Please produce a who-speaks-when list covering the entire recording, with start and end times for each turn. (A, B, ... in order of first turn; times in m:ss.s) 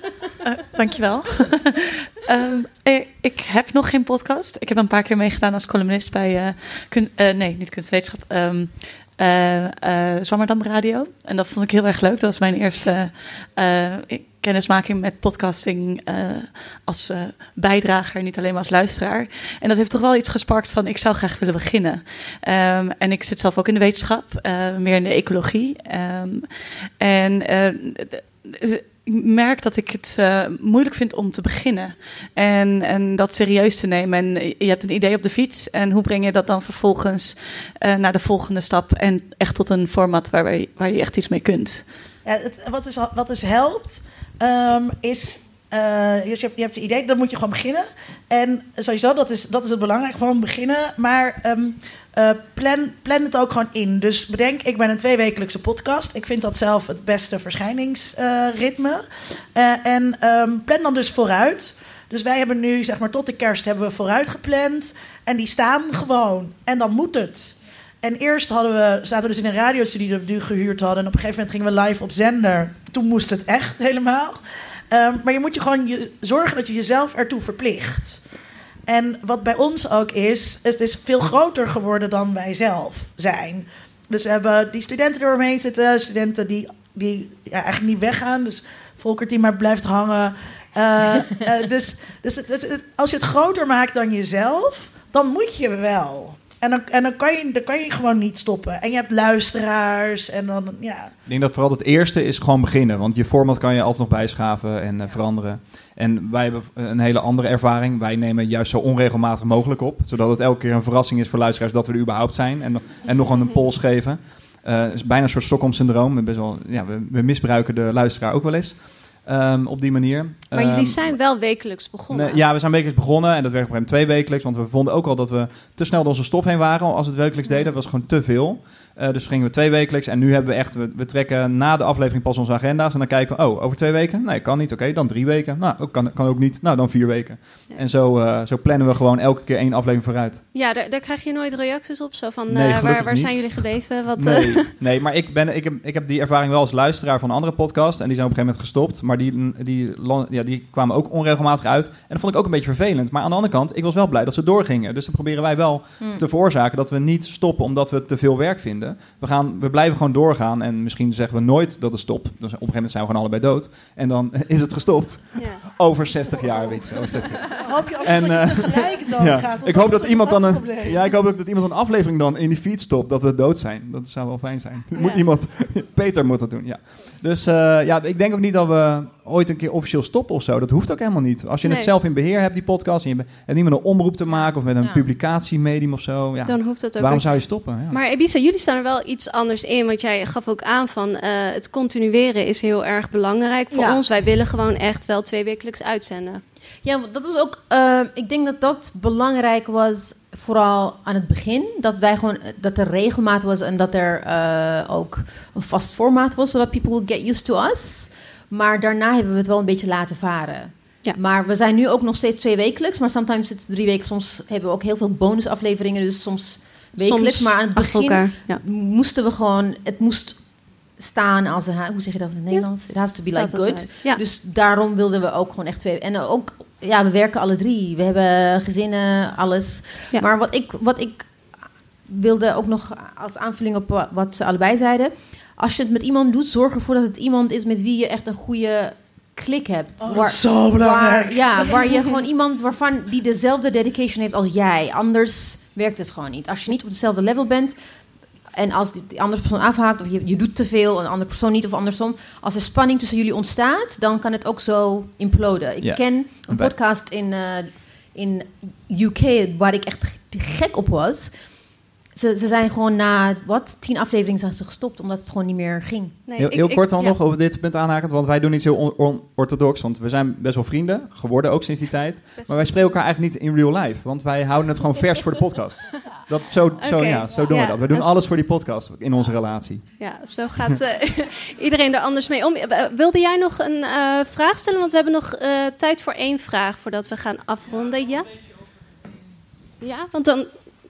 0:00.5-0:41.8 A
0:42.2-1:18.2 B
1:18.9-1:41.1 B
1:41.3-2:01.2 C
2:00.5-2:02.4 D
2:02.1-2:20.4 C
2:20.5-2:24.7 D
2:22.5-3:08.0 C
2:45.4-2:45.6 D
2:47.5-2:51.0 B
2:54.9-2:55.2 D
3:01.6-3:01.9 D
3:04.4-3:05.0 E
3:06.4-3:16.4 D
3:13.7-3:14.0 E
3:16.8-3:40.4 E
3:37.0-3:38.6 D
3:41.0-3:51.3 E
3:43.2-3:44.2 D
3:52.1-4:07.7 E
4:00.0-4:02.0 B
4:08.5-4:21.3 E
4:15.8-4:16.7 C
4:22.2-4:26.2 E
4:26.3-4:27.2 D
4:26.4-4:39.9 C
4:32.4-4:32.8 D
4:36.8-4:38.2 D
4:40.0-4:48.3 D
4:49.8-4:50.5 D